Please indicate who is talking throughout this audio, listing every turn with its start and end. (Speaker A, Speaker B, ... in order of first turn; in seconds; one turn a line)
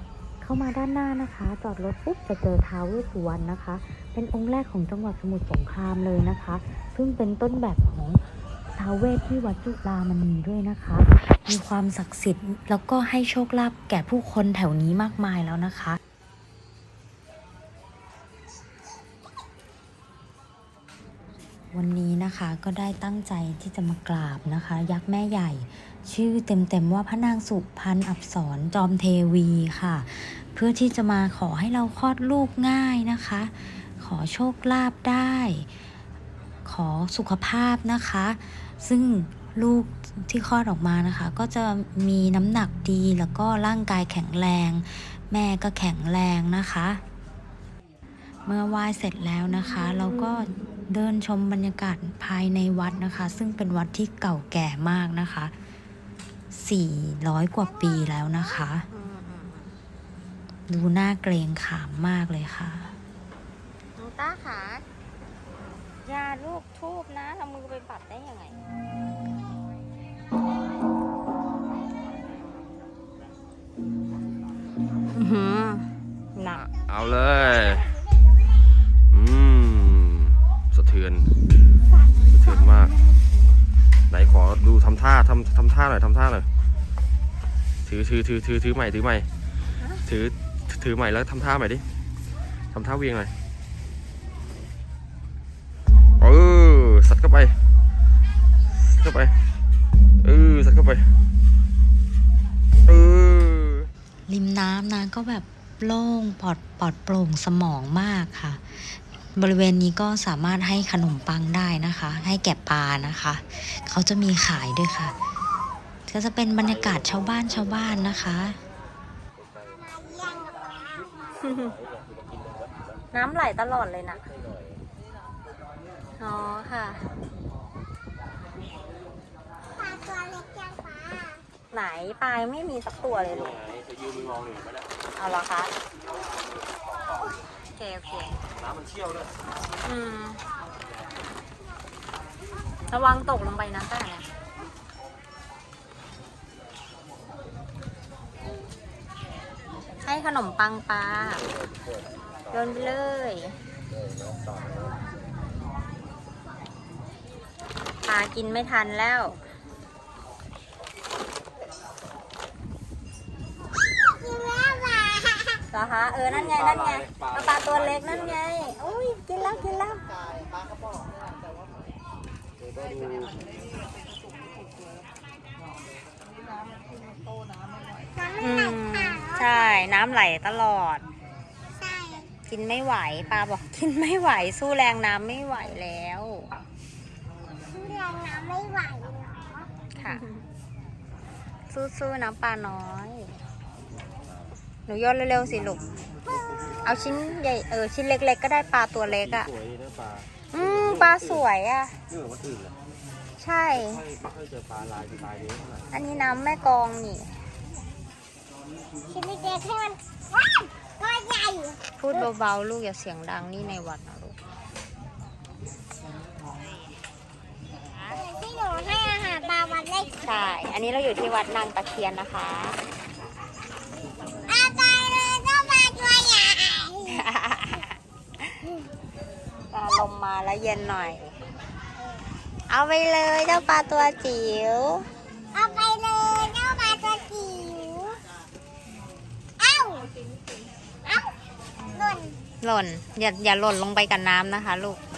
Speaker A: 0.4-8.2
Speaker A: 8.7-16.0
Speaker A: 21.7-35.7
Speaker A: 36.6-47.0
Speaker A: 48.4-55.5
Speaker A: 56.5-58.9
Speaker B: 58.9-59.7
Speaker A: 60.7-62.9
Speaker B: 64.0-64.8
Speaker B: 66.0-68.6
Speaker B: 75.1-76.7
Speaker C: 76.6-77.9
Speaker C: 79.1-81.3
Speaker C: 82.3-82.9
Speaker C: 84.1-86.5
Speaker C: 87.8-89.3
Speaker C: 90.0-91.8
Speaker C: 92.7-93.3
Speaker C: 96.2-97.5
Speaker C: 98.8-99.3
Speaker C: 100.2-101.1
Speaker C: 102.8-103.9
Speaker A: 104.3-115.2
Speaker A: 116.1-118.6
Speaker D: 119.8-120.9
Speaker B: 121.4-121.8
Speaker B: 123.1-124.2
Speaker B: 126.2-127.0
Speaker D: 129.8-131.4
Speaker B: 131.7-133.6
Speaker C: 133.7-134.8
Speaker B: 135.2-135.7
Speaker B: 137.7-138.4
Speaker C: 138.6-139.2
Speaker B: 139.8-140.4
Speaker B: 142.9-144.3
Speaker B: 150.0-151.4
Speaker B: 152.5-153.5
Speaker B: 158.0-159.4
Speaker D: 164.0-165.6
Speaker B: 165.7-170.0
Speaker C: 166.4-167.7
Speaker C: 172.8-173.4
Speaker D: 178.2-179.4
Speaker B: 178.4-181.0
Speaker D: 181.8-182.3
Speaker B: 182.5-186.5
Speaker D: 187.7-189.7
Speaker B: 189.9-190.2
Speaker B: 191.7-193.4
Speaker B: 194.9-195.8
Speaker B: 196.8-199.5
Speaker C: 199.5-200.2
Speaker B: 200.5-201.9
Speaker C: 202.2-202.7
Speaker B: 203.4-204.0
Speaker C: 204.1-205.8
Speaker B: 205.9-207.3
Speaker D: 209.1-211.8
Speaker B: 211.9-214.3
Speaker D: 218.1-220.2
Speaker B: 220.2-222.8
Speaker D: 224.5-227.1
Speaker B: 227.1-228.6
Speaker B: 229.7-231.4
Speaker B: 232.7-235.1
Speaker D: 235.5-238.2
Speaker D: 239.6-240.1
Speaker D: 241.9-242.4
Speaker B: 242.6-245.0